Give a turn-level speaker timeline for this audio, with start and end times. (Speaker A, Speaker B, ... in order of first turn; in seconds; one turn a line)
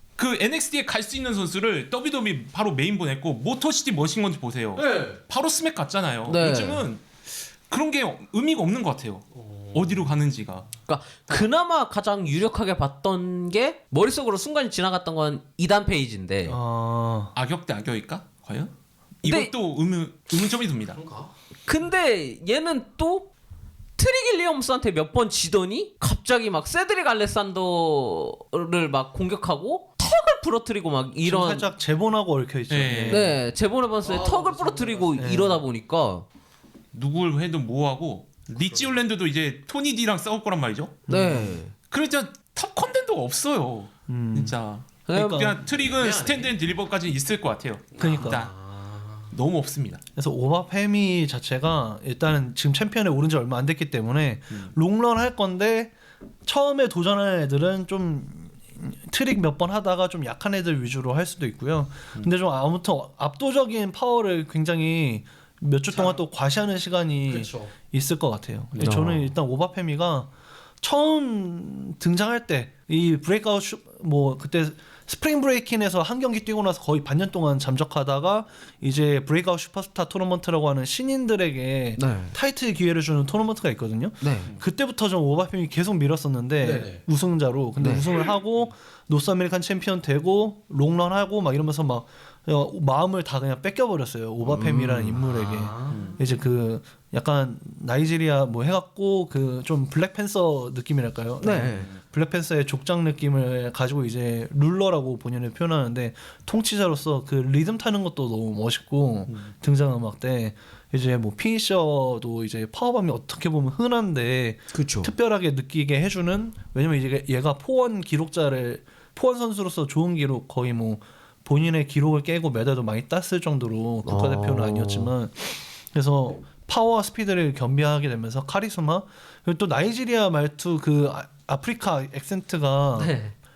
Speaker A: 0.2-10.7
Speaker B: 4.8-5.2
Speaker C: 6.2-6.9
Speaker B: 9.3-10.0
Speaker C: 10.9-16.6
Speaker D: 16.5-17.3
Speaker A: 17.4-21.0
Speaker C: 19.2-19.5
Speaker B: 20.9-21.3
Speaker C: 21.7-23.3
Speaker C: 24.0-31.7
Speaker D: 31.2-33.3
Speaker A: 32.7-33.3
Speaker C: 33.1-36.3
Speaker B: 34.0-35.2
Speaker D: 35.2-35.6
Speaker A: 36.9-41.0
Speaker B: 38.6-38.9
Speaker D: 41.1-41.6
Speaker C: 41.1-41.7
Speaker A: 41.9-48.5
Speaker D: 44.1-44.6
Speaker C: 45.1-45.5
Speaker D: 45.1-45.6
Speaker B: 45.8-46.6
Speaker B: 48.0-49.3
Speaker D: 48.0-48.5
Speaker A: 49.3-50.0
Speaker D: 50.2-133.1
Speaker B: 65.9-66.2
Speaker B: 67.3-67.7
Speaker A: 68.7-69.1
Speaker C: 68.8-69.3
Speaker C: 82.0-82.4
Speaker C: 84.2-84.5
Speaker B: 86.6-87.0
Speaker C: 87.8-88.1
Speaker C: 94.4-95.2
Speaker B: 95.2-96.1
Speaker A: 95.9-96.2
Speaker C: 101.4-101.8
Speaker B: 101.4-101.9
Speaker C: 114.7-115.1
Speaker C: 124.0-125.1
Speaker C: 133.0-133.3